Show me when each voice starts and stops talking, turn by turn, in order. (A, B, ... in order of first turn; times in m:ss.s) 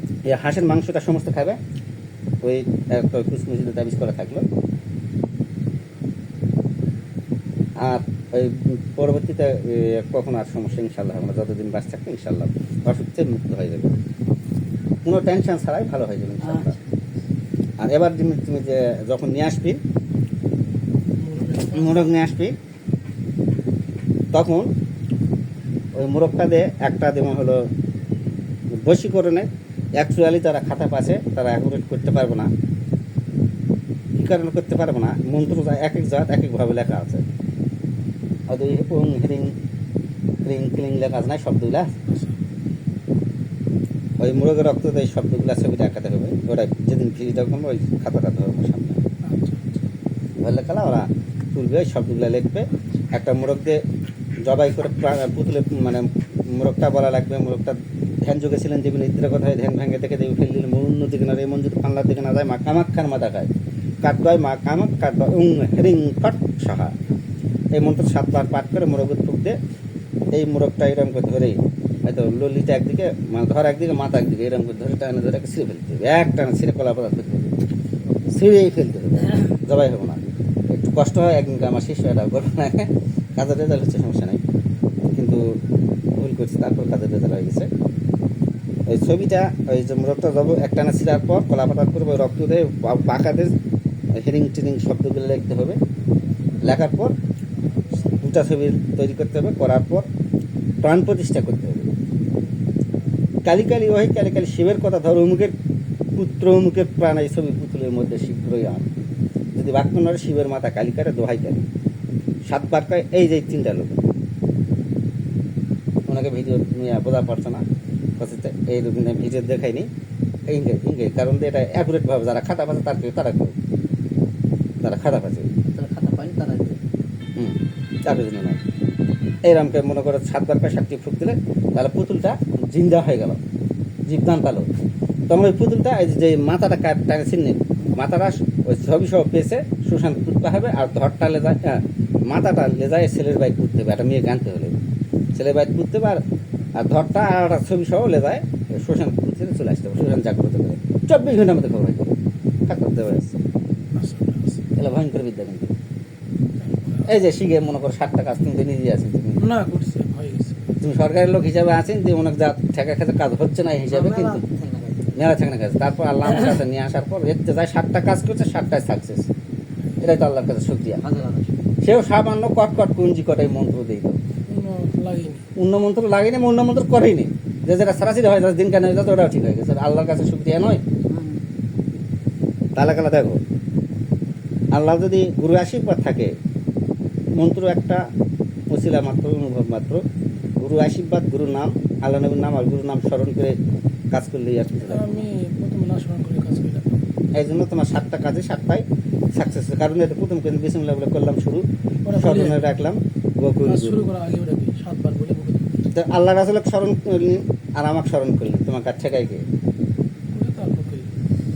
0:00.2-0:01.6 A
0:02.4-0:04.4 A
0:07.8-0:14.0 A
0:15.0-0:16.8 A
0:17.8-0:19.8 A
0:21.2-0:22.1 B
0:21.7-0:22.6 A
0:24.3-0:24.7 A
0:25.9-0:27.7 A
0:28.8-0:32.5 A
0:34.1-0:37.2 A
0:38.5-0:39.6 A
0:40.4-0:41.9 A
0:42.1-0:42.4 B
0:44.2-0:49.0 A
0:49.2-0:49.8 B
0:50.4-0:53.8 A
0:54.4-1:03.5 A
1:04.0-1:06.9 A
1:07.7-1:09.6 A
1:10.3-1:17.6 A
1:18.2-1:24.4 A
1:25.1-1:25.6 A
1:26.1-1:27.7 A
1:28.9-1:33.5 A
1:34.2-1:35.8 A
1:36.6-1:37.1 A
1:38.1-1:40.1 A
1:40.8-1:41.9 A
1:43.4-1:45.5 A
1:46.2-1:48.9 A
1:49.6-1:51.7 A
1:52.5-1:54.0 A
1:56.1-1:57.6 A
1:58.2-1:59.9 A
2:00.5-2:03.6 A
2:04.8-2:05.5 A
2:05.7-2:06.8 C
2:07.4-2:08.6 A
2:09.4-2:13.4 A
2:14.1-2:14.7 A
2:15.3-2:24.8 A
2:25.4-2:26.2 A
2:26.8-2:32.1 A
2:32.7-2:33.4 A
2:34.0-2:34.6 B
2:34.8-2:35.7 A
2:36.6-2:37.1 B
2:37.1-2:39.4 A
2:39.4-2:40.6 B
2:40.8-2:44.4 A
2:43.9-2:45.2 C
2:45.2-2:49.3 A
2:50.0-2:51.0 A
2:51.0-2:51.5 C
2:51.8-2:54.2 A
2:54.5-2:55.4 B
2:55.6-3:00.8 A
3:01.1-3:01.4 C
3:02.8-3:03.4 A
3:04.7-3:06.3 A
3:07.4-3:08.0 A
3:08.7-3:10.0 A
3:10.6-3:13.6 A
3:14.1-3:15.2 A
3:14.9-3:17.0 B
3:17.4-3:24.1 A
3:22.0-3:22.6 B
3:23.6-3:25.7 B
3:25.9-3:29.4 A
3:30.3-3:31.1 B